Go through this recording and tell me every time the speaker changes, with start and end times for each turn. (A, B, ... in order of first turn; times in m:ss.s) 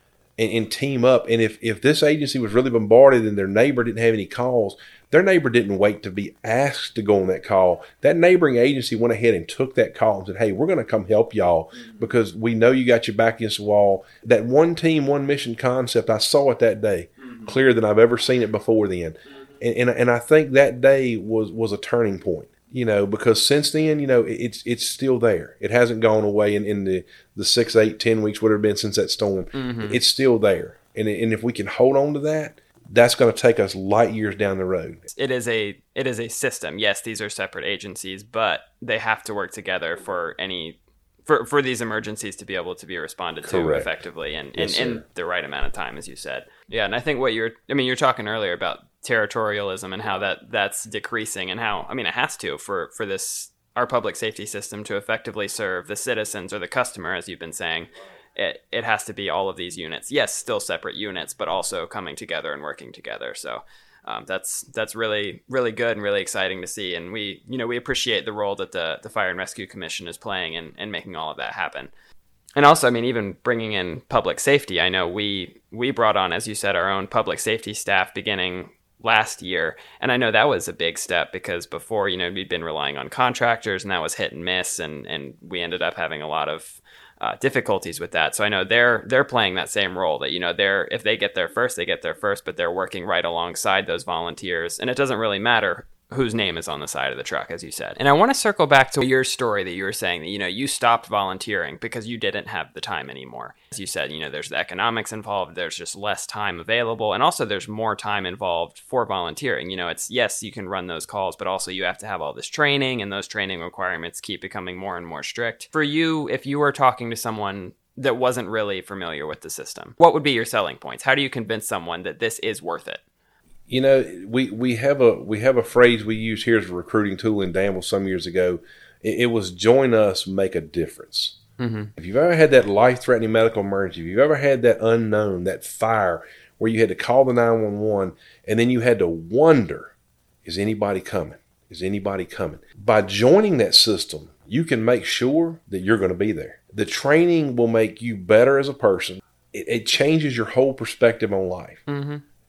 0:00.4-0:35.0 A
0:29.6-0:30.0 B
0:35.1-1:11.9 B
0:43.4-0:43.9 A
0:44.6-0:45.0 A
1:12.6-2:03.0 B
2:03.7-2:11.4 A
2:11.6-2:11.9 B
2:12.0-2:19.9 A
2:20.4-2:31.8 A
2:31.9-2:32.2 B